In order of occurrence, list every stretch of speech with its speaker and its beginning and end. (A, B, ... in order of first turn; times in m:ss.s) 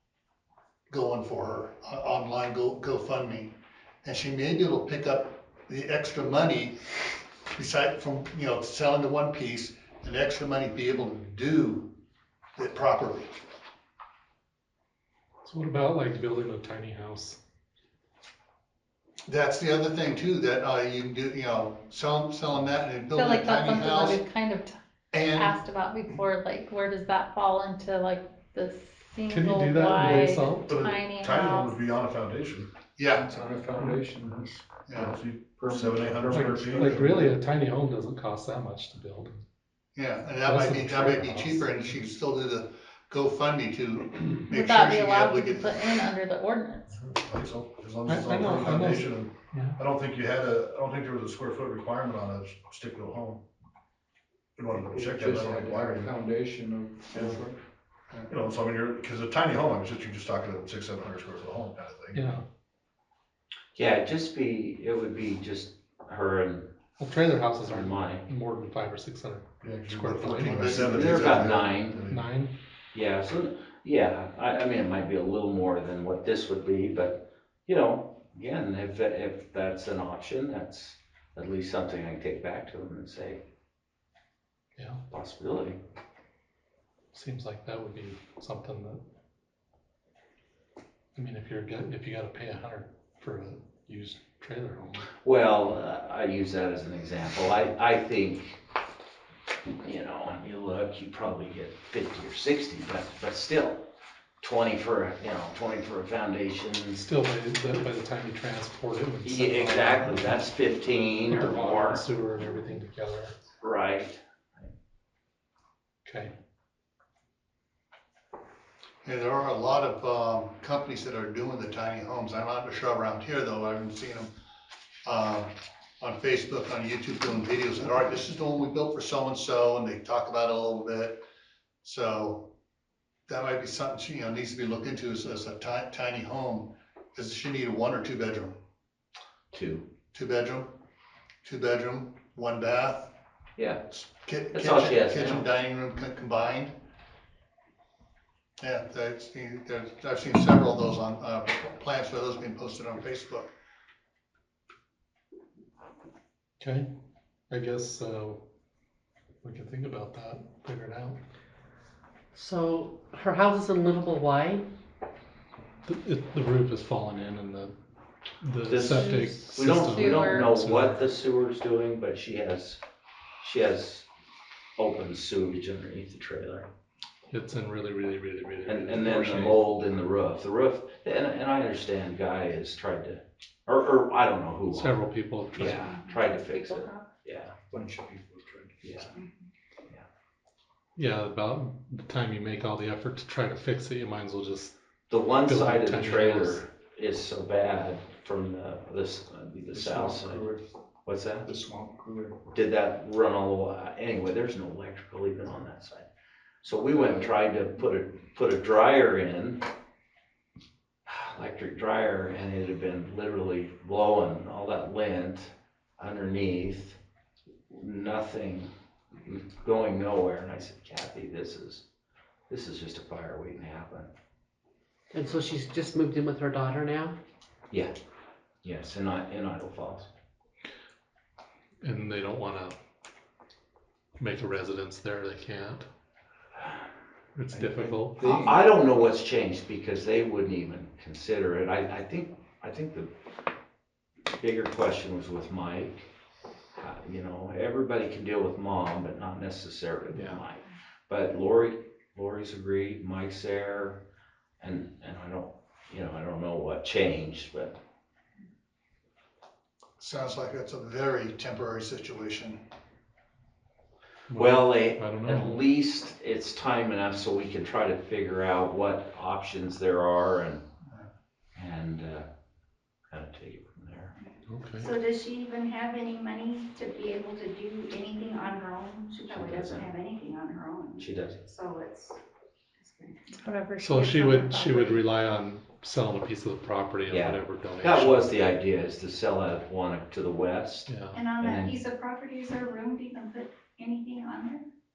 0:00.9-0:03.5 A
0:04.0-0:06.8 A
0:07.5-0:11.9 A
0:12.6-0:13.4 A
0:15.4-0:17.4 B
0:19.3-0:24.2 A
0:23.1-0:24.7 C
0:25.1-0:25.6 A
0:25.3-0:31.8 C
0:29.3-0:30.7 B
0:30.7-0:32.7 D
0:33.0-0:33.3 A
0:33.1-0:37.3 E
0:34.9-0:35.1 A
0:35.0-0:37.2 D
0:36.3-0:39.4 B
0:39.9-0:46.0 A
0:40.4-0:42.0 B
0:44.5-0:47.0 C
0:47.0-0:53.4 D
0:48.1-0:49.8 B
0:54.6-0:56.1 D
0:54.8-0:57.6 E
0:57.1-0:57.4 D
0:58.3-1:02.3 D
1:02.1-1:02.4 B
1:03.7-1:06.7 F
1:07.0-1:11.1 B
1:07.6-1:08.2 F
1:09.6-1:12.3 D
1:10.2-1:11.7 A
1:10.8-1:12.0 F
1:12.1-1:12.5 B
1:12.9-1:23.4 F
1:25.1-1:25.8 F
1:27.1-1:29.0 B
1:31.2-1:35.0 B
1:35.2-1:38.6 F
1:39.8-1:43.8 F
1:44.4-1:47.0 F
1:47.0-1:50.4 B
1:49.2-1:52.0 F
1:51.2-1:53.3 B
1:53.6-1:54.7 F
1:56.0-1:56.3 B
1:59.0-2:04.3 A
2:05.0-2:11.2 A
2:11.8-2:12.5 A
2:13.3-2:18.6 A
2:19.5-2:19.8 F
2:20.1-2:20.7 A
2:21.4-2:23.1 A
2:23.6-2:23.8 F
2:23.9-2:26.7 A
2:24.5-2:25.5 F
2:28.6-2:33.5 A
2:36.6-2:36.9 B
2:37.5-2:38.4 B
2:39.4-2:41.2 B
2:42.3-2:44.6 G
2:45.8-2:47.7 B
2:48.4-2:51.0 B
2:48.7-2:52.8 F
2:49.9-2:50.4 C
2:53.4-2:54.1 F
2:54.8-2:56.7 F
2:57.3-2:59.6 B
2:58.7-3:05.0 F
3:04.7-3:05.9 B
3:05.5-3:07.5 F
3:06.3-3:07.0 C
3:07.7-3:09.1 E
3:08.8-3:09.1 F
3:09.2-3:09.4 H
3:11.0-3:14.7 B
3:15.1-3:20.5 F
3:15.4-3:16.6 B
3:19.7-3:20.6 E
3:21.0-3:21.5 F
3:21.4-3:22.4 E
3:22.5-3:26.1 F
3:26.6-3:29.6 F
3:31.0-3:37.0 F
3:37.7-3:41.8 F
3:42.5-3:44.1 F
3:45.1-3:47.2 G
3:48.6-3:50.1 F
3:51.8-3:52.8 B
3:54.2-3:55.8 B
3:57.4-3:58.5 B
3:57.5-3:58.6 E
3:58.3-4:03.1 F
4:04.4-4:06.1 F
4:06.8-4:14.0 F
4:10.1-4:10.4 B
4:14.6-4:17.8 F
4:20.0-4:22.6 A
4:24.3-4:25.6 B
4:24.3-4:30.6 F
4:31.6-4:32.2 F
4:33.1-4:34.1 F
4:34.2-4:42.2 H
4:34.5-4:34.9 B
4:39.3-4:39.9 F
4:41.0-4:41.4 F
4:42.8-4:43.4 H
4:43.4-4:45.0 C
4:43.8-4:48.3 B
4:47.1-4:51.8 F
4:50.9-4:51.2 B
4:51.1-4:54.6 H